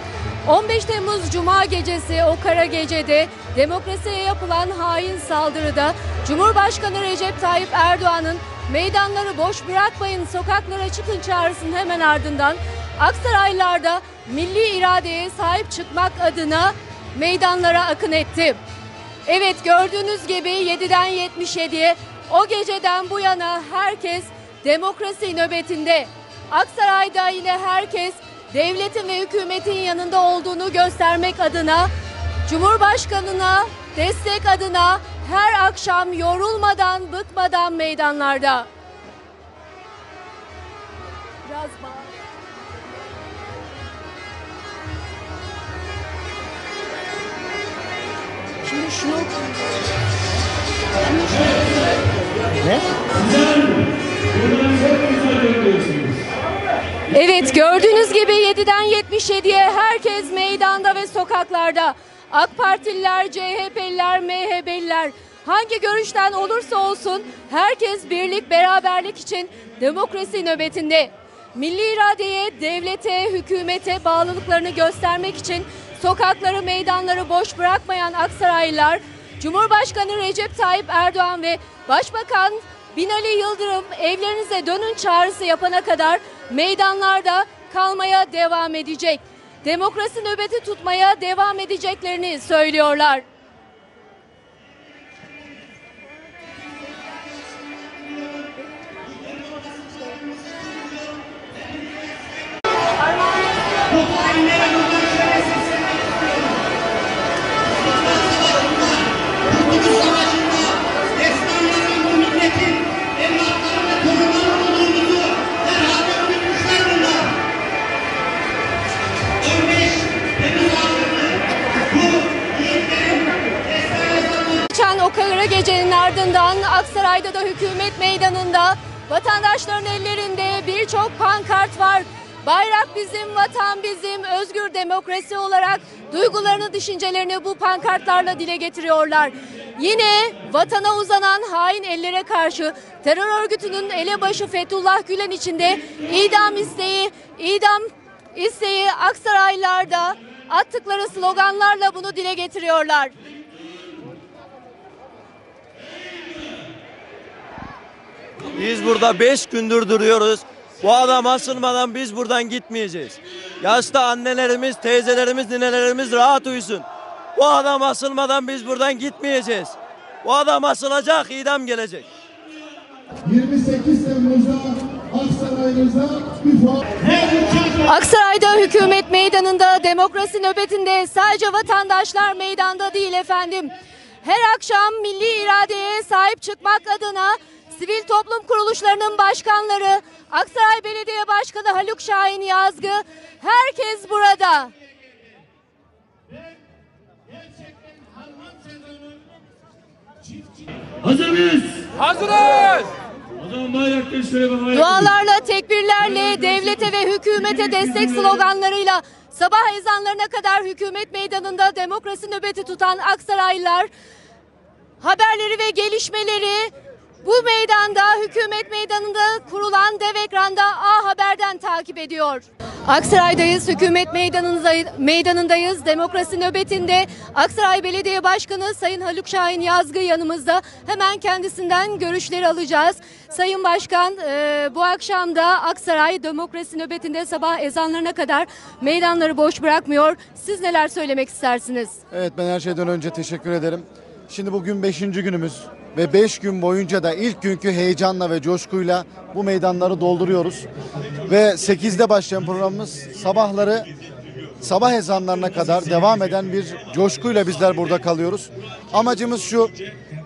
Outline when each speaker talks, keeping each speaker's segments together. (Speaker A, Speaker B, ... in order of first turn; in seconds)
Speaker A: 0.5-18.6, 19.3-31.9, 32.5-38.7, 41.5-42.1, 48.7-49.3, 57.1-93.2, 124.5-153.2, 177.7-183.7, 184.2-194.7, 204.7-213.9, 215.0-216.7, 217.2-242.0
Speaker B: 53.2-53.8, 54.4-56.1, 104.0-104.8, 109.7-110.6, 111.3-112.8, 113.4-115.2, 115.8-117.2, 119.6-120.8, 122.6-123.2, 158.5-172.1, 201.0-202.8, 203.4-205.1
Speaker C: 173.2-177.6, 242.1-250.7, 251.3-253.9, 254.6-259.8